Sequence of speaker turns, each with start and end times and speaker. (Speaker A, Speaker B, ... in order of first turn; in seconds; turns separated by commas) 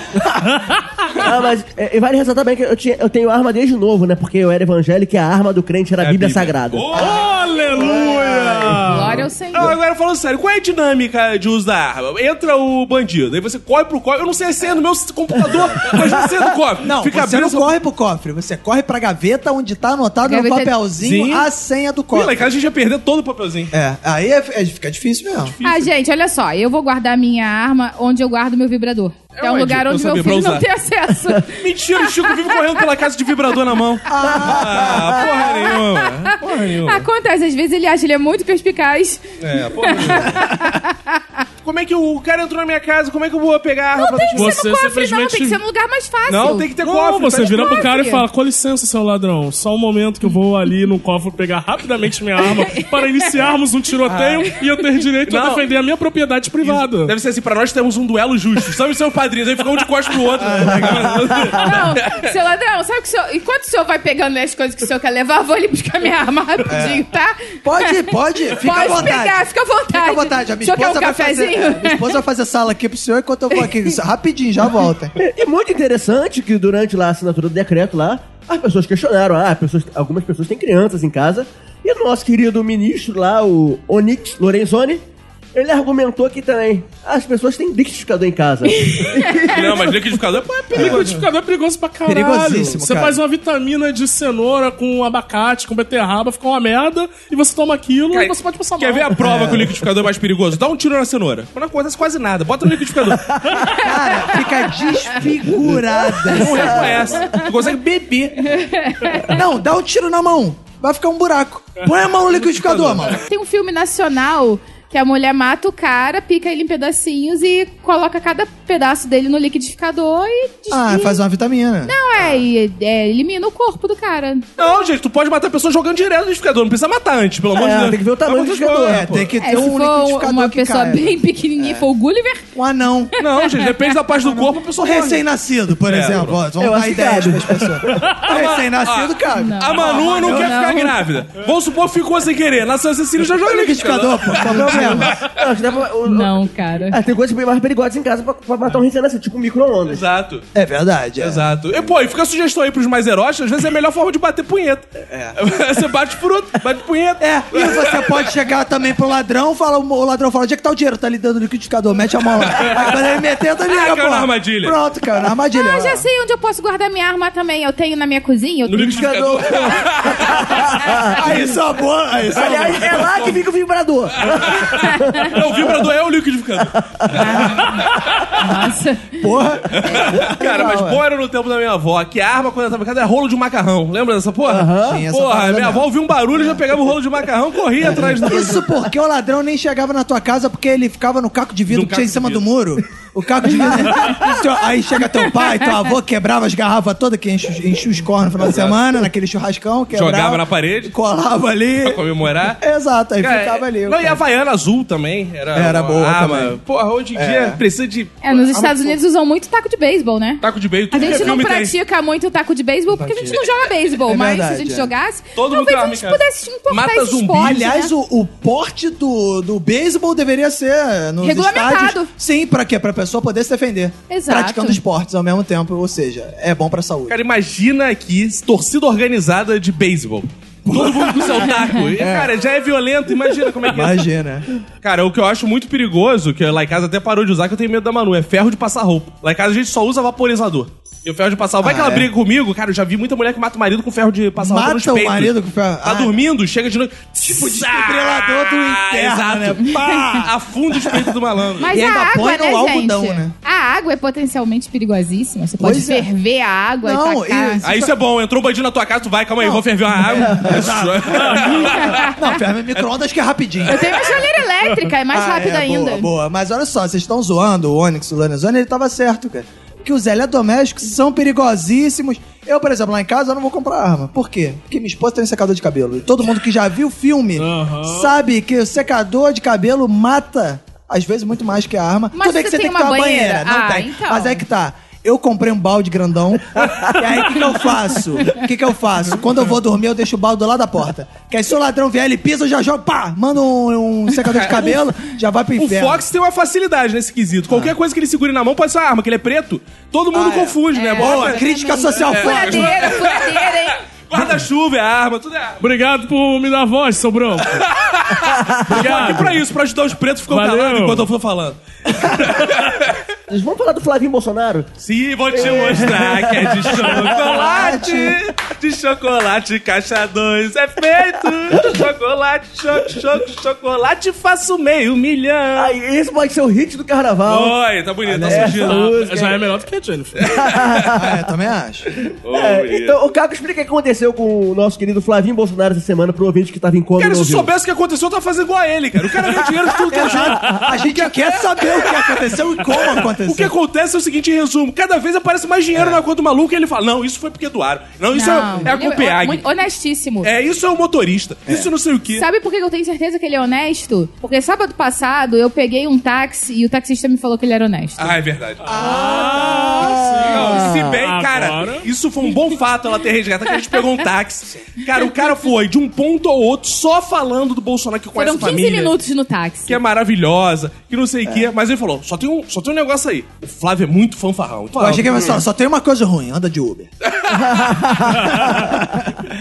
Speaker A: 1.1-7.0, Speaker B: 6.0-7.3, Speaker C: 7.0-9.3, Speaker D: 7.0-8.4, Speaker E: 7.0-8.2, Speaker A: 8.2-8.9, Speaker E: 8.8-9.8, Speaker B: 9.5-17.7, Speaker D: 15.5-16.0, Speaker A: 15.9-16.2, Speaker D: 16.8-22.5, Speaker E: 20.2-20.8, Speaker B: 21.0-21.5, Speaker B: 22.1-23.7, Speaker D: 23.7-25.6, Speaker B: 25.5-25.9, Speaker E: 25.6-32.9, Speaker B: 29.4-30.7, Speaker B: 31.6-37.1, Speaker D: 34.1-35.2, Speaker A: 34.2-35.1, Speaker E: 35.2-41.4, Speaker B: 39.4-40.4, Speaker B: 41.6-44.6, Speaker E: 44.0-46.7, Speaker C: 44.4-45.6, Speaker B: 46.3-47.8, Speaker C: 46.8-57.1, Speaker E: 47.4-48.3, Speaker E: 52.4-53.4, Speaker D: 54.1-54.4, Speaker B: 55.3-55.6, Speaker B: 56.6-62.2, Speaker D: 60.4-61.6, Speaker E: 61.5-72.2, Speaker D: 66.7-67.0, Speaker D: 67.6-75.2, Speaker A: 75.2-85.0, Speaker A: 85.5-90.0, Speaker E: 88.9-89.5, Speaker B: 89.5-91.3, Speaker C: 90.7-99.3, Speaker D: 90.7-91.1, Speaker D: 92.0-93.2, Speaker B: 98.1-103.3, Speaker D: 99.2-99.8, Speaker E: 103.7-104.5, Speaker D: 103.7-107.2, Speaker B: 106.3-108.6, Speaker A: 106.5-107.2, Speaker E: 108.4-109.4, Speaker D: 109.3-113.2, Speaker B: 112.5-113.2, Speaker E: 113.2-121.2, Speaker D: 120.7-122.4, Speaker E: 121.8-124.8, Speaker B: 124.6-129.3, Speaker A: 127.5-129.3, Speaker D: 128.9-131.9, Speaker E: 129.4-132.5, Speaker D: 132.5-133.1, Speaker E: 133.2-133.9, Speaker B: 133.2-135.2, Speaker D: 134.8-140.6, Speaker B: 135.8-136.4, Speaker A: 136.6-138.1, Speaker B: 138.2-145.3, Speaker E: 139.3-141.0, Speaker D: 143.3-145.2, Speaker A: 145.0-146.4, Speaker E: 146.1-147.0, Speaker A: 146.9-150.0, Speaker B: 149.9-150.4, Speaker D: 150.5-151.8, Speaker B: 151.2-158.3, Speaker D: 155.1-155.4, Speaker D: 157.2-166.1, Speaker B: 162.4-162.9, Speaker B: 163.7-164.8, Speaker E: 165.5-169.1, Speaker B: 168.7-170.8, Speaker A: 168.8-171.4, Speaker D: 171.1-173.2, Speaker A: 172.3-175.9, Speaker B: 172.5-173.4, Speaker B: 174.2-178.1, Speaker E: 174.7-175.3, Speaker A: 176.9-177.4, Speaker E: 177.2-179.3, Speaker D: 179.2-181.0, Speaker B: 179.7-188.7, Speaker A: 184.5-185.0, Speaker D: 184.8-185.9, Speaker A: 187.8-188.6, Speaker D: 187.8-202.0, Speaker B: 191.7-192.4, Speaker B: 198.4-198.8, Speaker B: 199.9-200.9, Speaker B: 201.8-202.6, Speaker D: 202.5-204.2, Speaker B: 203.2-209.0, Speaker D: 205.5-206.6, Speaker D: 207.2-207.6, Speaker E: 208.2-217.9, Speaker B: 210.4-211.8, Speaker D: 211.0-211.3, Speaker B: 213.0-213.7, Speaker D: 214.1-214.9, Speaker B: 215.4-217.6, Speaker D: 217.4-227.2, Speaker E: 221.2-222.1, Speaker E: 224.1-224.8, Speaker B: 227.1-234.1, Speaker D: 230.7-232.3, Speaker D: 233.7-234.5, Speaker B: 234.8-251.8, Speaker D: 241.6-242.1, Speaker D: 244.4-246.2, Speaker D: 247.2-253.3, Speaker E: 249.6-250.2, Speaker E: 251.6-257.7, Speaker D: 255.6-256.1, Speaker D: 256.8-257.9, Speaker B: 257.6-262.1, Speaker D: 259.4-264.0, Speaker E: 261.4-262.4, Speaker B: 263.6-264.0, Speaker E: 263.7-266.1, Speaker D: 265.1-296.1, Speaker C: 277.4-278.1, Speaker E: 282.1-284.4, Speaker B: 294.2-294.8, Speaker B: 295.6-301.4, Speaker D: 297.5-297.8, Speaker D: 300.1-303.0, Speaker E: 300.7-303.8, Speaker B: 302.0-305.6, Speaker C: 305.6-307.7, Speaker B: 307.5-313.0, Speaker A: 308.4-309.3, Speaker C: 308.7-309.4, Speaker C: 310.3-311.1, Speaker A: 313.3-314.7, Speaker B: 314.8-325.8, Speaker A: 315.3-317.6, Speaker D: 317.3-318.2, Speaker A: 325.6-327.6, Speaker B: 327.2-329.1, Speaker D: 328.1-328.7, Speaker A: 328.3-329.4, Speaker C: 328.5-330.4, Speaker B: 330.2-331.0, Speaker A: 330.3-331.1, Speaker D: 330.9-331.9, Speaker B: 332.2-333.0, Speaker A: 332.3-337.5, Speaker B: 337.0-349.4, Speaker D: 339.9-343.5, Speaker D: 345.7-346.0, Speaker E: 348.1-350.3, Speaker B: 350.2-352.3, Speaker E: 352.2-358.1, Speaker B: 358.0-358.7, Speaker C: 358.6-361.9, Speaker D: 358.7-360.0, Speaker A: 359.7-360.9, Speaker B: 360.3-368.9, Speaker E: 368.2-369.8, Speaker B: 369.7-375.4, Speaker D: 374.8-376.9, Speaker B: 377.0-378.5, Speaker A: 377.3-377.7, Speaker D: 377.9-379.1